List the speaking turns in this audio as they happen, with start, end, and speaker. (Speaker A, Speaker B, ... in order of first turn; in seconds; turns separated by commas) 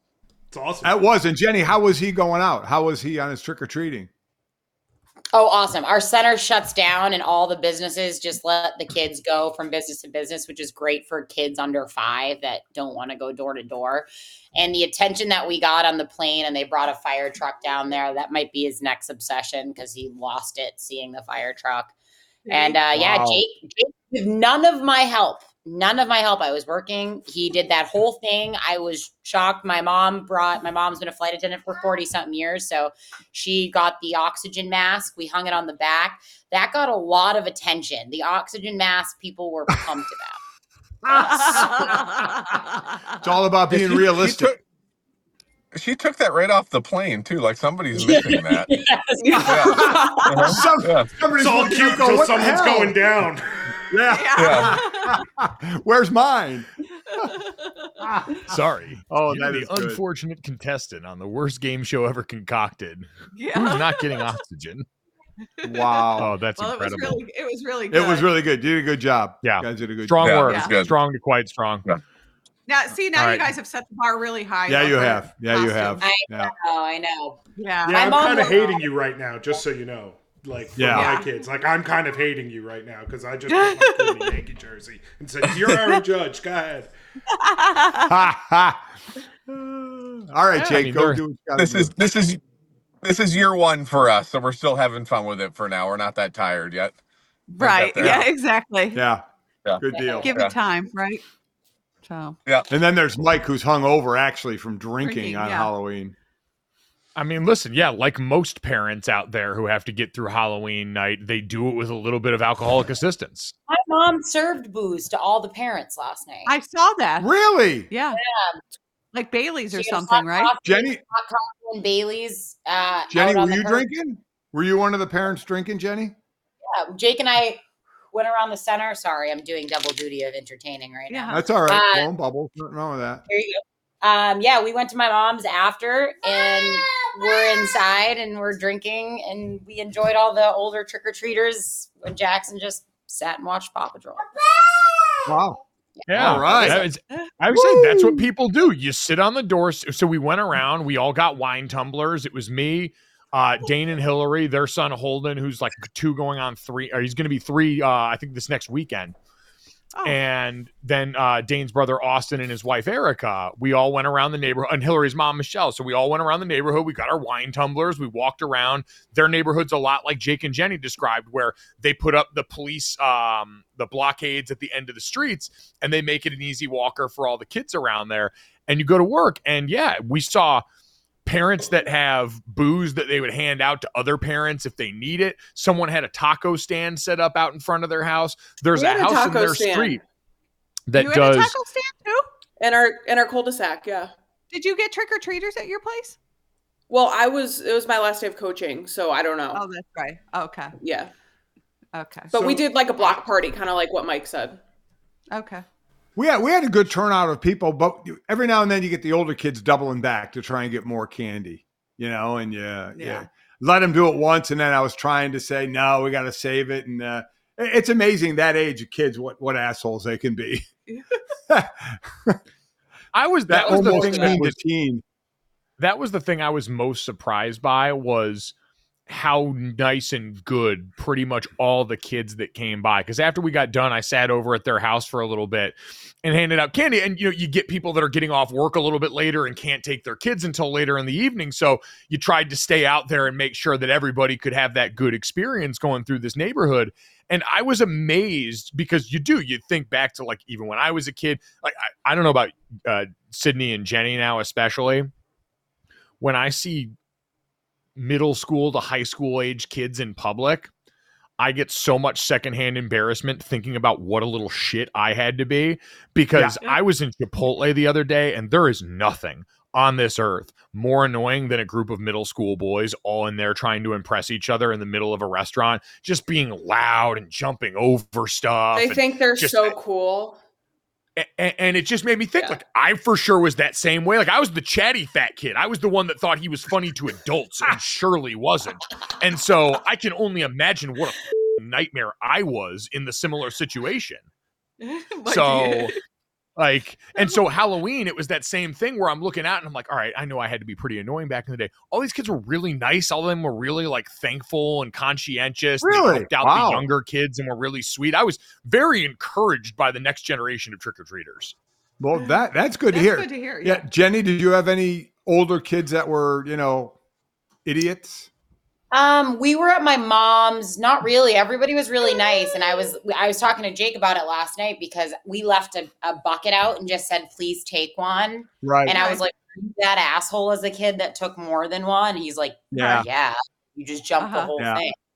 Speaker A: 0.5-1.0, Speaker B: 0.8-4.1, Speaker C: 5.3-21.9, Speaker D: 22.5-22.8, Speaker C: 22.5-40.4, Speaker B: 22.9-23.4, Speaker B: 41.0-41.9, Speaker D: 41.1-42.6, Speaker C: 41.2-42.0, Speaker B: 43.2-44.5, Speaker E: 43.8-44.5, Speaker E: 45.7-48.7, Speaker C: 47.9-50.1, Speaker F: 49.2-50.5, Speaker E: 49.4-51.1, Speaker B: 49.7-53.0, Speaker A: 51.3-53.7, Speaker B: 53.9-57.3, Speaker D: 54.1-55.2, Speaker E: 54.4-54.8, Speaker D: 57.1-57.9, Speaker B: 58.0-60.0, Speaker G: 58.5-64.8, Speaker D: 63.3-64.4, Speaker D: 65.6-68.3, Speaker B: 65.6-66.3, Speaker G: 66.2-67.2, Speaker B: 67.9-70.3, Speaker G: 69.4-71.8, Speaker E: 70.2-71.0, Speaker D: 70.5-70.8, Speaker D: 72.7-76.1, Speaker G: 73.1-73.5, Speaker B: 74.7-76.5, Speaker C: 76.0-78.8, Speaker D: 77.6-78.1, Speaker A: 77.8-86.9, Speaker B: 80.8-81.2, Speaker D: 80.9-81.3, Speaker D: 83.5-84.4, Speaker D: 87.3-88.2, Speaker B: 88.0-88.9, Speaker B: 89.5-91.9, Speaker G: 90.6-91.2, Speaker E: 91.5-92.4, Speaker E: 93.0-97.0, Speaker D: 97.5-99.0, Speaker E: 97.6-98.3, Speaker B: 98.9-99.2, Speaker E: 99.7-100.5, Speaker B: 99.8-100.3, Speaker C: 99.8-100.4, Speaker D: 100.2-101.2, Speaker D: 102.0-102.4, Speaker B: 102.7-106.1, Speaker D: 105.0-105.7, Speaker G: 107.2-113.5, Speaker C: 113.7-116.5, Speaker D: 116.5-117.3, Speaker B: 117.2-117.9, Speaker D: 117.9-118.2, Speaker C: 118.1-118.6, Speaker D: 119.1-120.5, Speaker C: 119.7-123.9, Speaker B: 120.6-121.0, Speaker B: 123.1-126.1, Speaker C: 126.6-132.1, Speaker D: 131.1-131.4, Speaker B: 131.3-133.2, Speaker C: 133.3-144.3, Speaker B: 145.2-145.6, Speaker C: 146.0-146.8, Speaker G: 146.1-159.1, Speaker B: 146.1-146.9, Speaker G: 160.0-180.6, Speaker G: 181.2-190.0, Speaker F: 188.7-190.0, Speaker G: 190.9-191.6, Speaker D: 190.9-192.3, Speaker F: 192.6-194.1, Speaker D: 194.5-196.2, Speaker F: 196.9-199.6, Speaker D: 199.5-200.7, Speaker F: 200.8-201.1, Speaker D: 201.9-202.3, Speaker F: 202.3-204.6, Speaker A: 202.3-202.6, Speaker D: 205.3-205.6, Speaker B: 206.2-220.7, Speaker D: 212.9-213.3, Speaker B: 221.5-222.4, Speaker G: 223.1-224.6, Speaker B: 223.5-225.0, Speaker F: 223.6-224.4, Speaker G: 225.8-228.5, Speaker G: 229.1-255.1, Speaker G: 256.2-256.9, Speaker G: 257.9-260.7, Speaker G: 261.4-279.7, Speaker B: 266.3-266.6, Speaker F: 278.7-280.4, Speaker G: 281.2-294.2, Speaker D: 294.9-295.9, Speaker G: 295.3-295.9, Speaker G: 296.6-311.5, Speaker B: 305.8-306.9, Speaker B: 312.0-316.9, Speaker D: 312.1-312.4, Speaker D: 312.9-313.8, Speaker B: 317.6-318.3, Speaker C: 318.9-334.9, Speaker B: 328.6-329.0, Speaker D: 328.9-329.2, Speaker B: 332.7-333.1, Speaker D: 334.2-334.5, Speaker B: 334.6-334.8